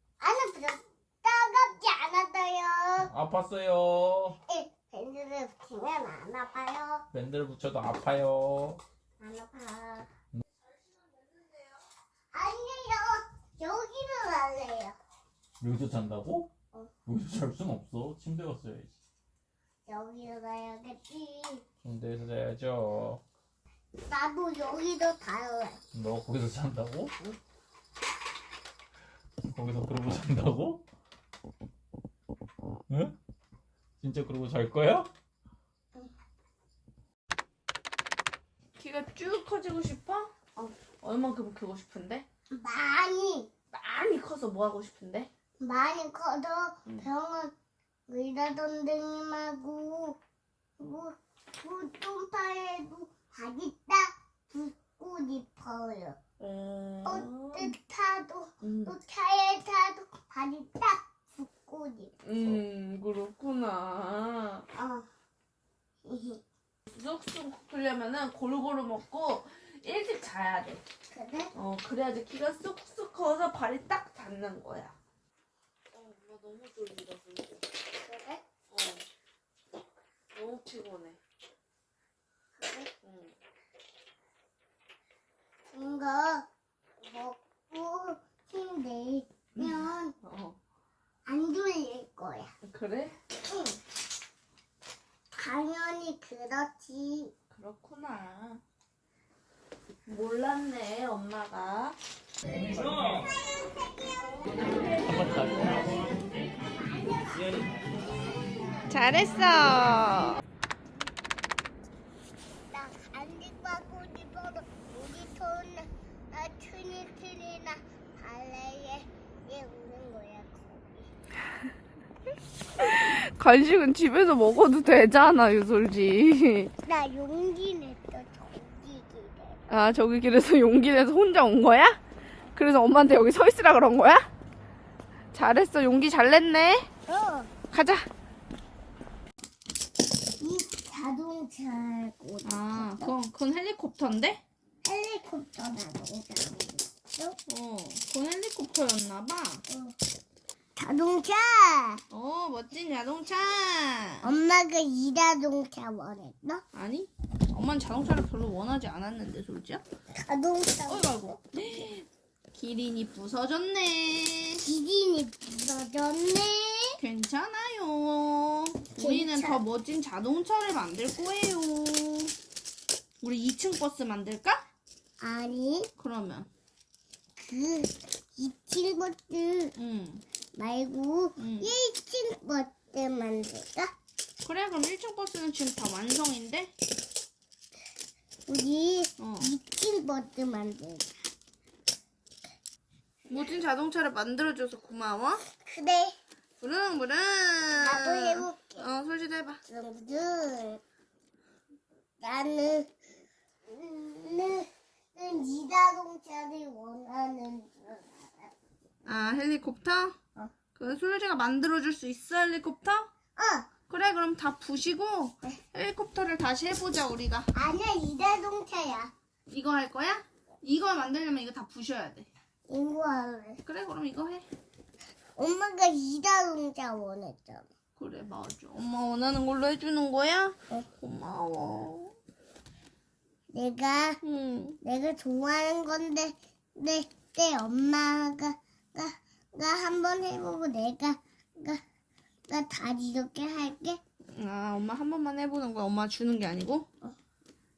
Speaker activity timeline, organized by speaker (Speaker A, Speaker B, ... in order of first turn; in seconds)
Speaker A: 0.2-3.1, 4.5-7.0, 9.2-10.1, 12.3-15.0, 19.9-21.6, 24.1-25.8, 42.5-43.5, 45.6-47.5, 48.1-50.2, 50.8-56.2, 57.0-62.1, 64.7-65.1, 66.0-66.4, 71.1-71.5, 78.0-78.4, 82.6-82.9, 85.7-86.4, 87.0-90.1, 91.2-92.5, 93.5-93.8, 95.3-97.3, 106.8-109.2, 112.7-121.1, 126.8-129.7, 137.1-137.5, 140.4-143.1, 144.8-147.4, 149.7-149.9, 150.8-152.0, 154.2-156.6, 160.1-161.4, 164.6-166.9, 168.9-169.6, 175.2-175.9, 177.4-179.7, 180.5-183.9, 188.5-191.1, 195.5-196.2, 197.8-198.9, 199.7-200.8, 202.2-202.9, 203.7-208.5, 213.3-213.7, 217.5-219.1, 222.7-223.6, 225.4-227.7, 233.5-234.2, 234.8-241.8, 242.5-244.0
Speaker B: 3.0-4.4, 7.1-8.8, 15.6-16.5, 17.0-18.9, 21.8-23.2, 25.9-27.1, 29.4-30.8, 32.9-33.1, 34.0-35.1, 105.2-105.7
Speaker C: 38.8-40.3, 41.0-42.2, 43.7-45.3, 56.4-57.8, 58.6-59.0, 62.2-64.7, 66.9-70.8, 71.5-74.9, 75.9-77.7, 78.7-79.0, 80.3-81.2, 83.0-83.3, 89.5-90.6, 92.6-93.2, 97.5-98.6, 100.0-102.0, 108.9-110.3, 122.8-126.7, 129.7-132.0, 132.5-134.3, 135.3-136.9, 137.7-138.1, 142.4-144.4, 147.5-149.6, 152.1-154.3, 156.7-159.8, 160.8-164.7, 167.0-172.3, 173.2-174.6, 176.0-176.5, 179.8-180.2, 181.4-181.7, 184.4-186.7, 189.2-189.5, 193.3-195.4, 196.6-199.6, 209.0-210.2, 210.7-213.1, 213.9-217.5, 219.5-222.3, 223.6-224.4, 227.9-232.1, 234.2-234.8, 244.3-246.9